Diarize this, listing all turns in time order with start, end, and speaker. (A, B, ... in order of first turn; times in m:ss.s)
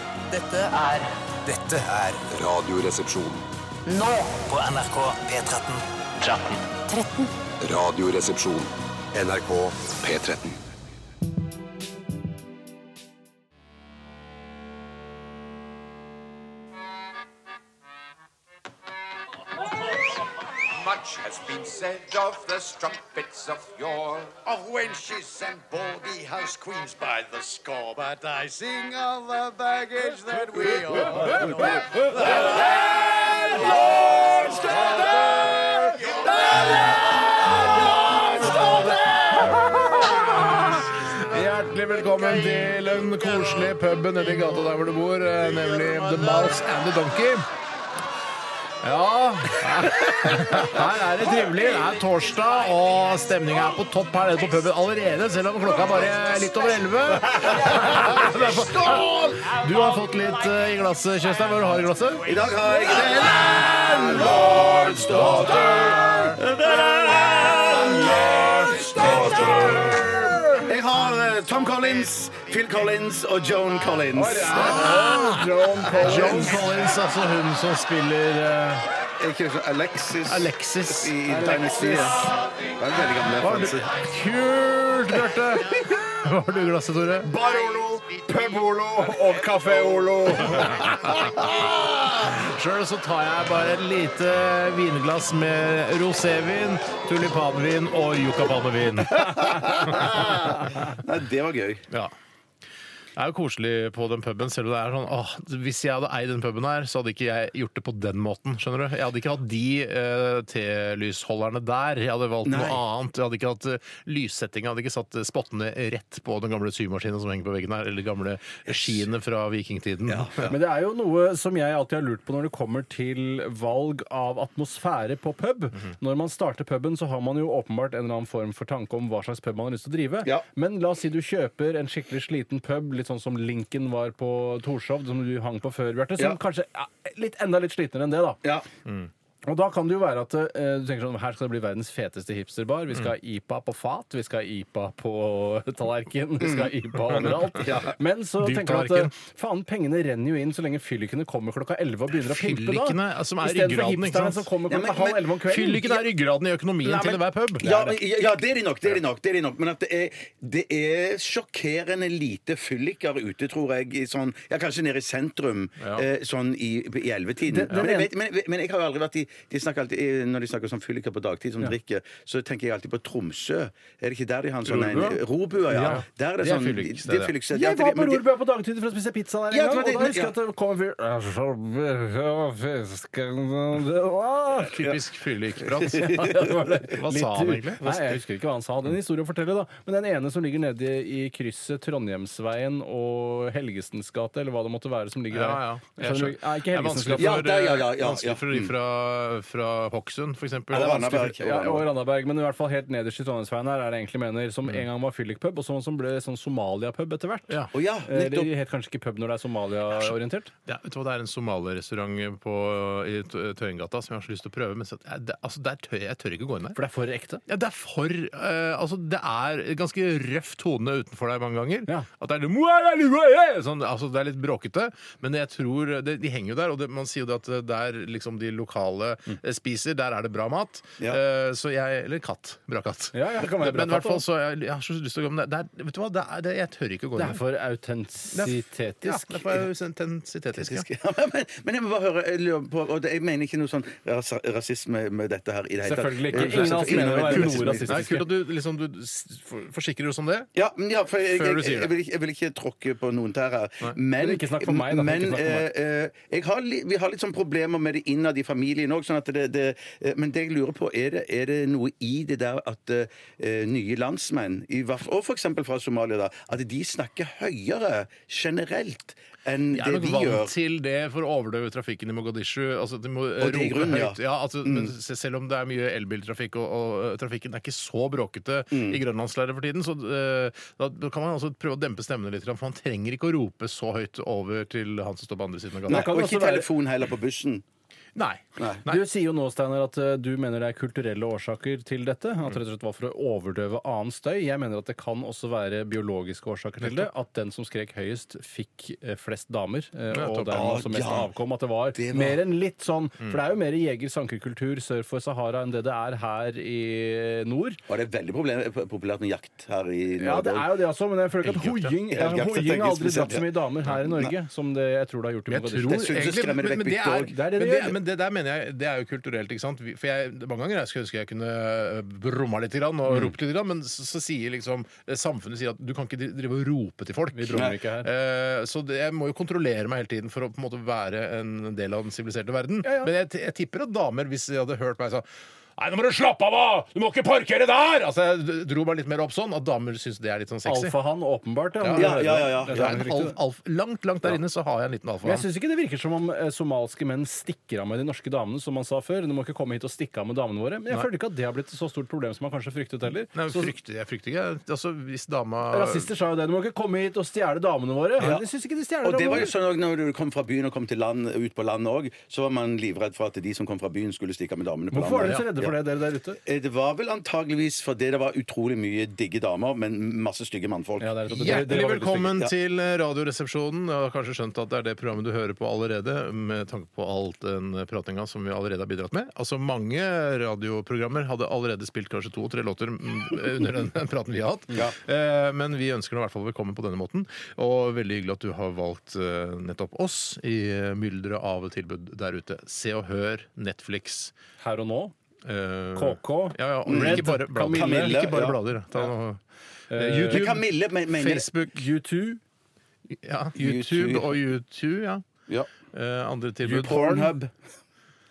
0:00.4-0:01.0 A
0:00.5-0:00.9 B
0:01.6-0:02.1 B
0:02.2-0:03.5 C
0:03.9-0:05.6 A
0:04.6-0:05.7 B
0:06.7-0:07.3 A
0:07.6-0:10.6 C
0:20.8-0:30.7 B
0:31.1-0:31.6 D
0:32.2-0:35.8 D
0:33.4-0:34.1 E
0:35.1-0:35.4 E
0:37.8-0:47.4 D
0:48.8-1:02.4 D
0:50.8-0:51.3 E
0:57.4-0:59.5 F
1:02.2-1:09.9 F
1:04.9-1:06.4 E
1:07.7-1:10.4 E
1:09.0-1:10.0 D
1:10.6-1:14.8 F
1:14.1-1:16.6 E
1:14.5-1:18.8 D
1:15.9-1:16.4 F
1:19.2-1:23.9 F
1:20.2-1:21.2 D
1:21.3-1:22.3 E
1:23.4-1:27.3 D
1:27.2-1:31.2 E
1:30.4-1:40.5 D
1:39.2-1:41.8 F
1:43.2-2:00.4 D
1:52.4-1:52.8 F
1:58.7-1:59.0 F
2:00.0-2:00.6 F
2:00.5-2:18.4 E
2:18.4-2:18.7 F
2:19.4-2:36.0 E
2:26.4-2:26.7 F
2:27.6-2:28.0 F
2:28.4-2:29.1 D
2:32.2-2:34.5 D
2:34.7-2:35.3 F
2:35.4-2:37.7 D
2:36.8-2:58.2 F
2:45.8-2:46.0 D
2:47.5-2:48.1 E
2:54.6-2:57.3 D
2:57.5-3:04.9 E
2:59.5-3:00.3 F
3:04.7-3:08.0 D
3:05.9-3:17.4 E
3:15.3-3:21.2 D
3:17.2-3:18.7 F
3:20.7-3:21.9 F
3:20.7-3:30.5 E
3:27.7-3:28.5 F
3:30.6-3:36.8 D
3:36.7-3:37.4 E
3:37.5-3:57.4 D
3:53.1-3:54.2 E
3:57.2-3:59.5 E
3:58.3-4:00.8 D
4:00.5-4:08.0 F
4:05.8-4:08.2 E
4:06.3-4:10.5 D
4:10.5-4:30.5 F
4:11.3-4:11.9 D
4:14.1-4:15.7 E
4:29.7-4:46.1 D
4:33.4-4:34.9 F
4:38.7-4:39.0 F
4:45.9-4:47.6 F
4:45.9-4:46.7 E
4:48.1-4:49.0 D
4:48.9-5:07.8 E
4:56.8-4:57.1 D
5:00.1-5:00.7 D
5:00.5-5:01.3 F
5:01.9-5:02.4 F
5:07.9-5:10.8 F
5:10.1-5:16.1 E
5:11.4-5:11.9 D
5:12.1-5:13.5 F
5:15.5-5:35.2 D
5:16.0-5:17.3 F
5:17.3-5:17.9 E
5:27.3-5:28.1 E
5:32.8-5:33.1 E
5:35.8-5:41.0 D
5:40.6-5:43.3 E
5:41.8-5:45.4 D
5:41.9-5:43.0 F
5:45.2-5:53.7 E
5:53.3-5:56.1 D
5:55.7-5:59.5 E
5:58.2-5:58.4 F
5:59.0-6:05.7 F
6:04.9-6:06.4 E
6:06.4-6:11.6 F
6:11.0-6:12.4 E
6:11.3-6:34.3 D
6:34.6-6:35.1 E
6:35.4-6:39.4 D
6:36.0-6:38.2 E
6:36.9-6:38.6 F
6:39.9-6:40.4 E
6:39.9-6:41.8 D
6:40.3-6:41.5 F
6:41.7-6:42.4 E
6:43.1-6:45.2 D
6:43.6-6:44.4 F
6:45.9-6:47.3 D
6:46.6-6:47.5 F